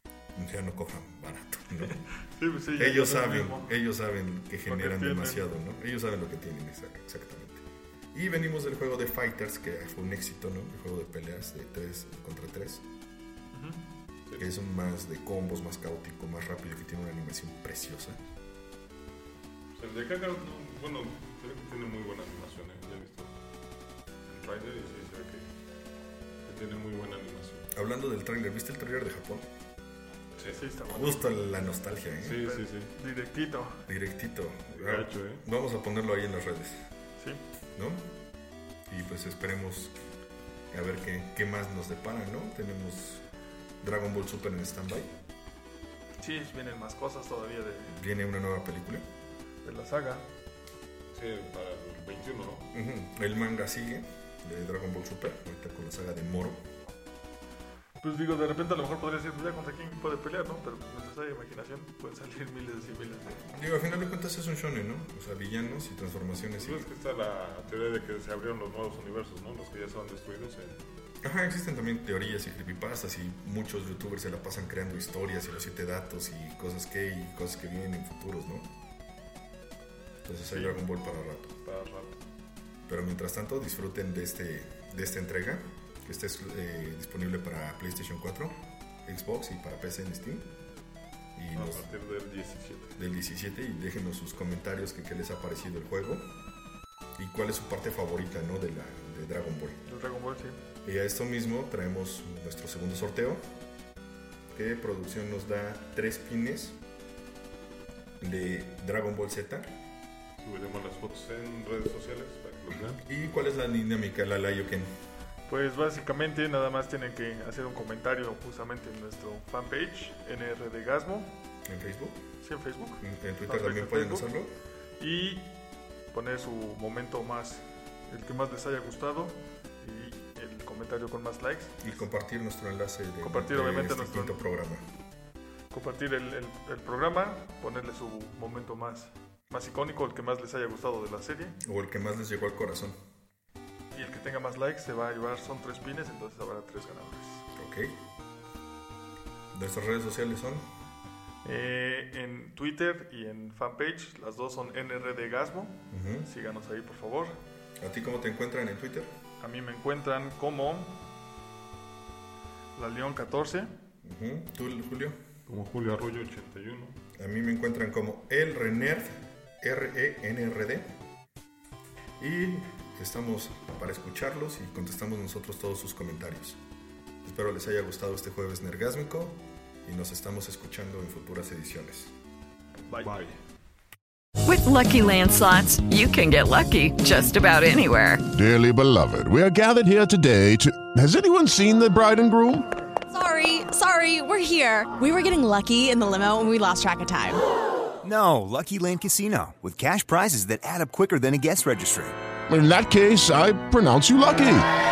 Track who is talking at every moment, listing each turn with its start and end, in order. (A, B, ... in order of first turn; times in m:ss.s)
0:00.3-0:02.0 A
0:01.8-0:03.7 B
0:02.8-0:12.8 A
0:04.7-0:05.4 B
0:13.5-0:13.8 B
0:14.4-0:18.2 A
0:19.7-0:23.3 C
0:24.3-0:25.5 C
0:26.4-0:27.7 C
0:27.7-0:29.5 A
0:30.4-0:30.7 C
0:30.5-0:31.3 B
0:30.9-0:32.4 A
0:32.2-0:32.9 C
0:32.4-0:33.8 B
0:33.9-0:36.8 A
0:34.7-0:35.4 C
0:37.8-0:38.1 A
0:38.9-0:39.9 A
0:40.7-0:43.2 A
0:43.8-0:45.1 A
0:46.2-0:48.0 B
0:47.9-0:49.0 A
0:49.6-0:50.2 B
0:51.1-0:52.7 C
0:52.7-0:56.6 A
0:58.0-1:03.4 B
1:03.5-1:06.9 A
1:06.6-1:10.8 C
1:11.2-1:18.7 A
1:20.2-1:21.6 A
1:20.5-1:20.8 B
1:21.6-1:22.2 C
1:22.9-1:30.5 A
1:31.3-1:31.8 A
1:31.5-1:33.0 C
1:33.0-1:36.2 A
1:37.2-1:39.8 A
1:39.8-1:40.6 B
1:40.8-1:43.4 A
1:44.5-1:46.8 A
1:48.2-1:49.8 A
1:50.4-1:53.0 C
1:53.0-1:54.9 A
1:55.5-2:01.3 B
2:01.6-2:02.2 A
2:02.4-2:04.3 B
2:03.0-2:04.5 A
2:05.0-2:05.5 B
2:06.1-2:12.0 B
2:11.8-2:14.8 A
2:13.2-2:14.4 B
2:15.7-2:21.6 B
2:21.6-2:23.0 A
2:23.9-2:27.5 B
2:27.5-2:28.0 A
2:29.5-2:30.6 A
2:31.4-2:37.4 B
2:35.9-2:36.3 A
2:37.8-2:39.1 A
2:39.4-2:41.0 B
2:42.8-2:43.7 B
2:44.0-2:45.2 A
2:45.5-2:47.0 C
2:47.2-2:50.9 A
2:52.2-2:56.6 A
2:57.2-3:02.1 A
3:03.0-3:03.4 C
3:04.4-3:08.2 D
3:08.3-3:12.7 E
3:13.1-3:17.4 F
3:18.0-3:22.2 G
3:22.5-3:24.7 E